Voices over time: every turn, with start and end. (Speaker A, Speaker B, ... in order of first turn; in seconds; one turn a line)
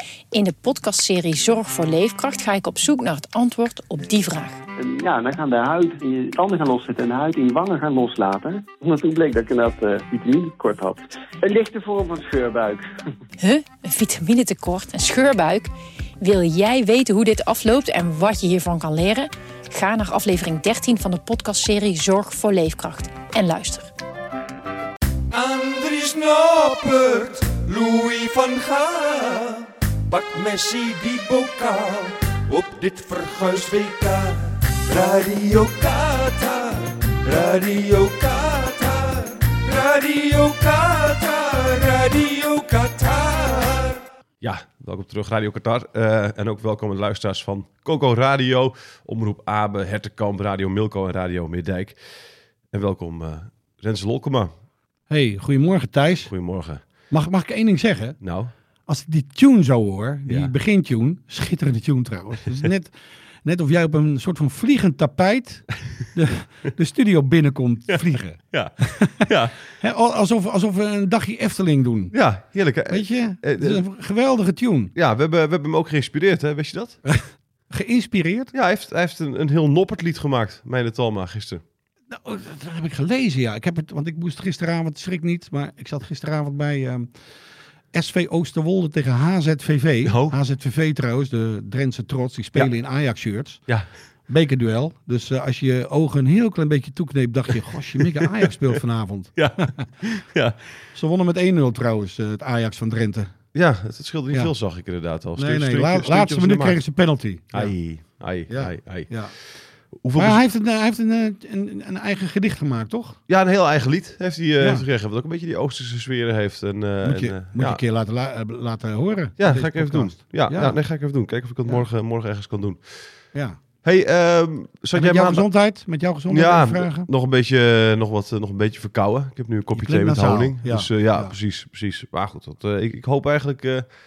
Speaker A: 0.3-4.6
Speaker B: 4.8-12.8
Speaker A: 13.4-23.9
Speaker C: 25.3-44.0
Speaker D: 44.4-52.0
Speaker D: 52.7-54.5
Speaker E: 55.1-56.3
Speaker D: 56.3-56.8
Speaker E: 57.1-58.2
Speaker D: 58.2-58.5
Speaker E: 58.9-69.2
Speaker D: 67.9-69.5
Speaker E: 69.8-72.1
Speaker D: 72.1-73.8
Speaker E: 72.9-74.9
Speaker D: 74.9-77.0
Speaker E: 77.1-78.5
Speaker D: 78.5-81.6
Speaker E: 82.1-87.1
Speaker E: 87.9-93.6
Speaker D: 90.0-90.3
Speaker E: 94.3-99.8
Speaker D: 98.0-98.3
Speaker D: 99.4-100.6
Speaker E: 100.9-103.3
Speaker D: 103.5-106.8
Speaker E: 105.3-107.8
Speaker D: 107.5-109.1
Speaker E: 108.5-109.3
Speaker D: 110.0-110.4
Speaker E: 110.2-113.2
Speaker D: 113.3-117.8
Speaker E: 117.0-120.8
Speaker D: 119.4-123.1
Speaker D: 123.8-125.5
Speaker E: 124.9-127.1
Speaker D: 126.3-133.9
Speaker E: 129.7-131.3